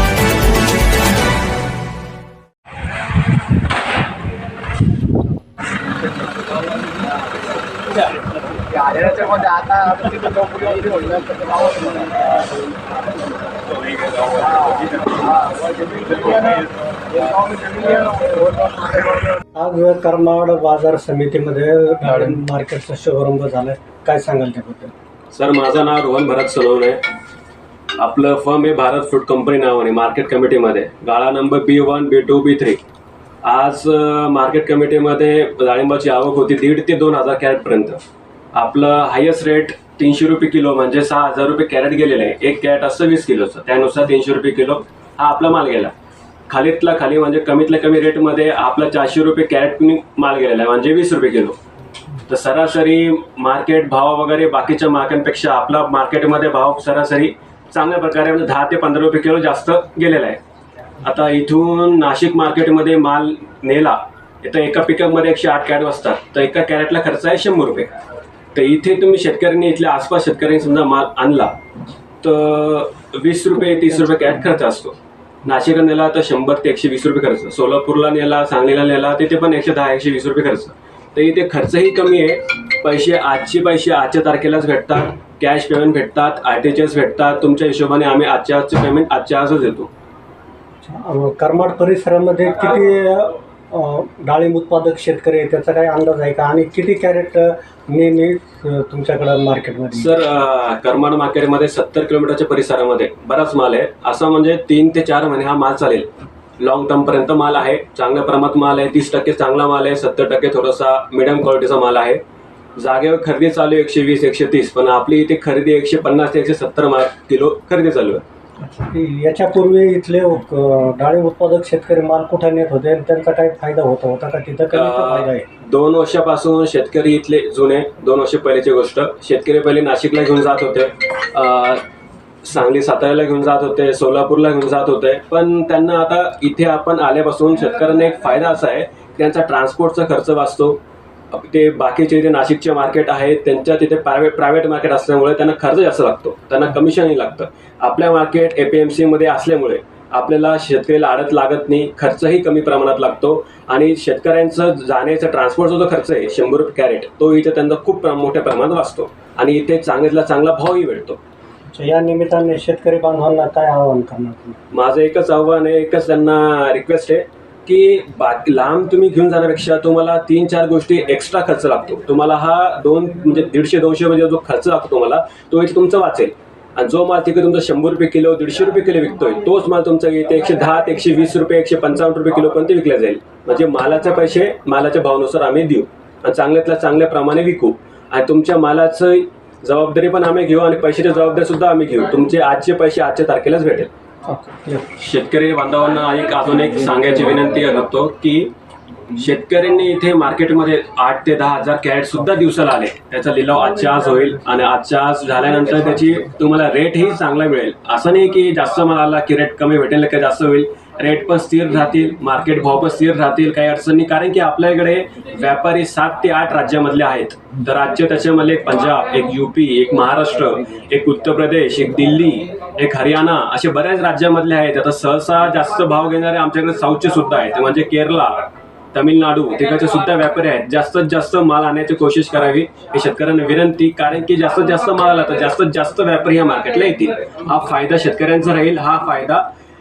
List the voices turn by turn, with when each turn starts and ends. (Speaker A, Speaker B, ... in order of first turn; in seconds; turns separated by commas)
Speaker A: 8.7-12.1, Speaker A: 14.4-15.3, Speaker A: 16.0-16.6, Speaker A: 17.4-19.0, Speaker B: 19.6-24.9, Speaker C: 25.3-27.0, Speaker C: 28.0-32.8, Speaker C: 33.4-38.0, Speaker C: 38.5-45.9, Speaker C: 46.5-51.6, Speaker C: 52.3-60.4, Speaker C: 61.0-67.9, Speaker C: 68.5-71.6, Speaker C: 72.2-89.9, Speaker B: 90.8-100.1, Speaker C: 99.9-112.2, Speaker C: 112.8-118.2, Speaker B: 118.6-125.5, Speaker C: 124.7-131.8, Speaker C: 132.4-140.8, Speaker C: 141.3-161.2, Speaker B: 161.7-164.6, Speaker C: 164.7-193.9, Speaker B: 194.3-194.9, Speaker C: 195.0-198.5, Speaker C: 199.1-239.5